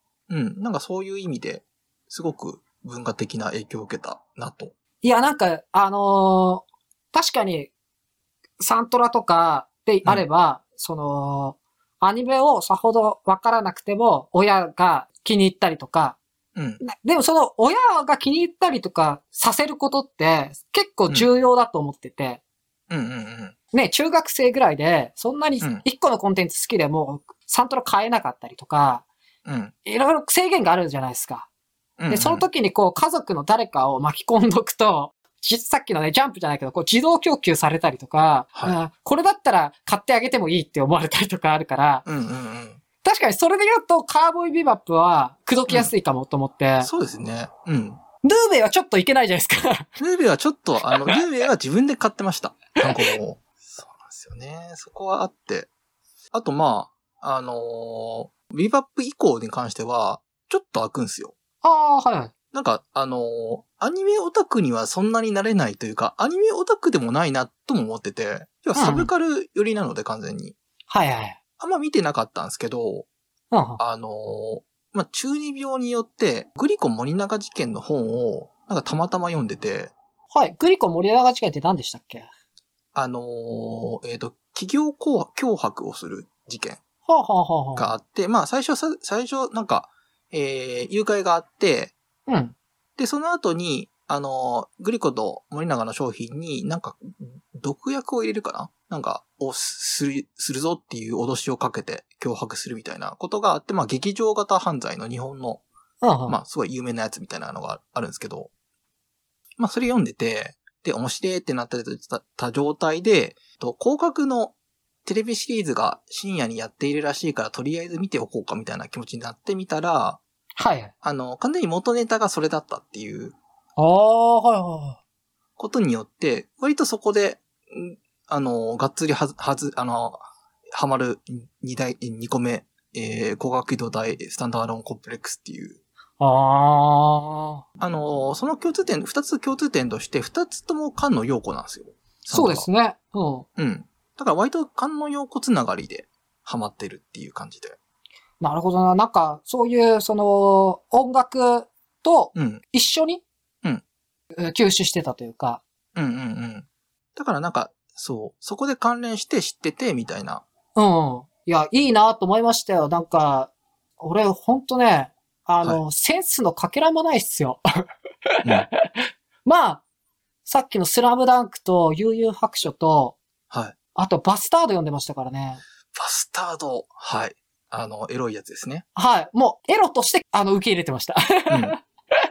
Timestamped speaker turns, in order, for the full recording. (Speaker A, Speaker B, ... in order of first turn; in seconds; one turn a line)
Speaker A: 0.3-4.7
Speaker B: 5.0-7.7
Speaker B: 8.6-16.2
Speaker A: 16.5-16.8
Speaker B: 16.8-22.4
Speaker A: 22.9-23.5
Speaker B: 23.7-29.0
Speaker A: 29.4-29.7
Speaker B: 29.9-31.5
Speaker A: 32.0-32.5
Speaker B: 32.1-42.0
Speaker A: 42.0-42.8
Speaker B: 43.0-46.9
Speaker A: 46.8-48.0
Speaker B: 48.2-49.9
Speaker A: 50.0-55.7
Speaker B: 50.9-51.2
Speaker B: 52.9-53.2
Speaker A: 56.3-61.3
Speaker B: 61.6-62.3
Speaker A: 62.5-70.5
Speaker B: 68.8-69.1
Speaker B: 70.9-71.4
Speaker A: 71.6-73.1
Speaker B: 73.5-73.8
Speaker A: 73.8-79.9
Speaker B: 80.3-82.3
Speaker A: 82.9-86.8
Speaker B: 87.1-87.9
Speaker A: 87.8-91.9
Speaker B: 92.3-92.5
Speaker A: 93.0-105.6
Speaker B: 106.0-106.4
Speaker A: 106.3-108.5
Speaker A: 109.6-114.5
Speaker A: 115.0-120.2
Speaker B: 120.6-120.9
Speaker A: 121.0-123.3
Speaker B: 123.8-125.0
Speaker A: 125.6-130.2
Speaker A: 130.7-135.8
Speaker B: 136.2-137.6
Speaker A: 137.8-142.7
Speaker B: 142.3-143.4
Speaker A: 143.6-147.8
Speaker B: 148.4-153.2
Speaker A: 152.3-152.6
Speaker B: 154.4-155.6
Speaker A: 155.9-160.4
Speaker B: 160.8-167.6
Speaker B: 168.6-168.9
Speaker B: 169.4-169.8
Speaker B: 170.4-173.2
Speaker B: 173.9-175.6
Speaker A: 175.9-178.8
Speaker B: 178.9-181.8
Speaker A: 181.5-181.8